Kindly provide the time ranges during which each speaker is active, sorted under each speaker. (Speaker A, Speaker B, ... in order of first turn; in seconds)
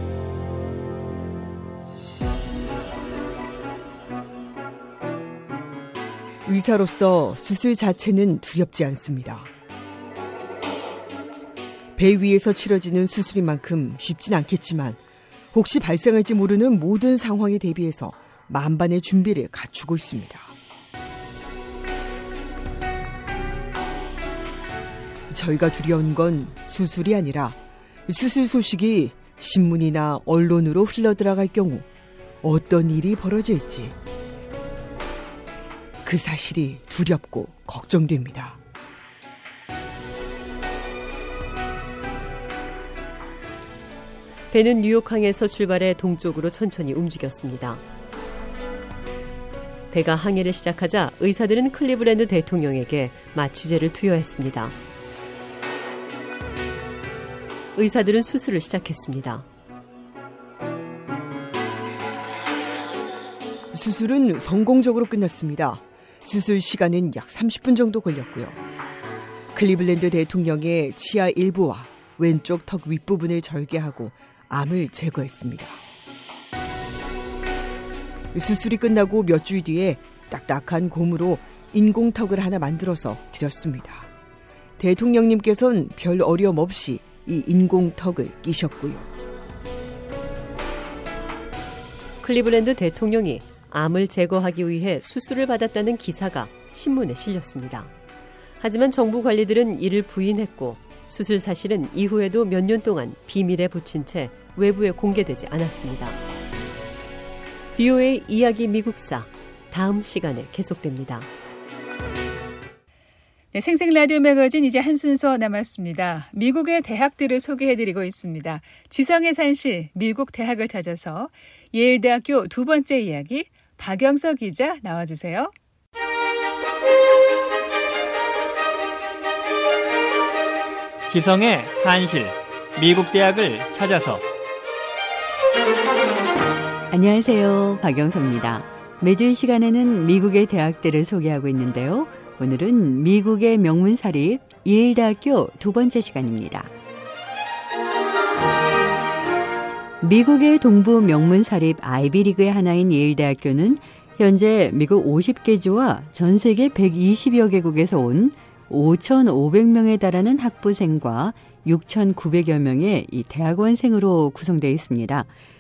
Speaker A: 6.5-9.5, 12.0-15.0, 15.5-20.5, 25.3-31.9, 32.4-34.0, 36.0-38.6, 63.7-68.6, 69.5-75.8, 78.3-84.1, 84.8-89.1
Speaker B: 44.5-47.8, 49.9-54.8, 57.8-59.5, 92.2-97.9, 98.6-106.2, 107.8-111.3
Speaker C: 113.5-125.5
Speaker D: 131.1-134.2
Speaker E: 136.9-146.7, 150.0-165.3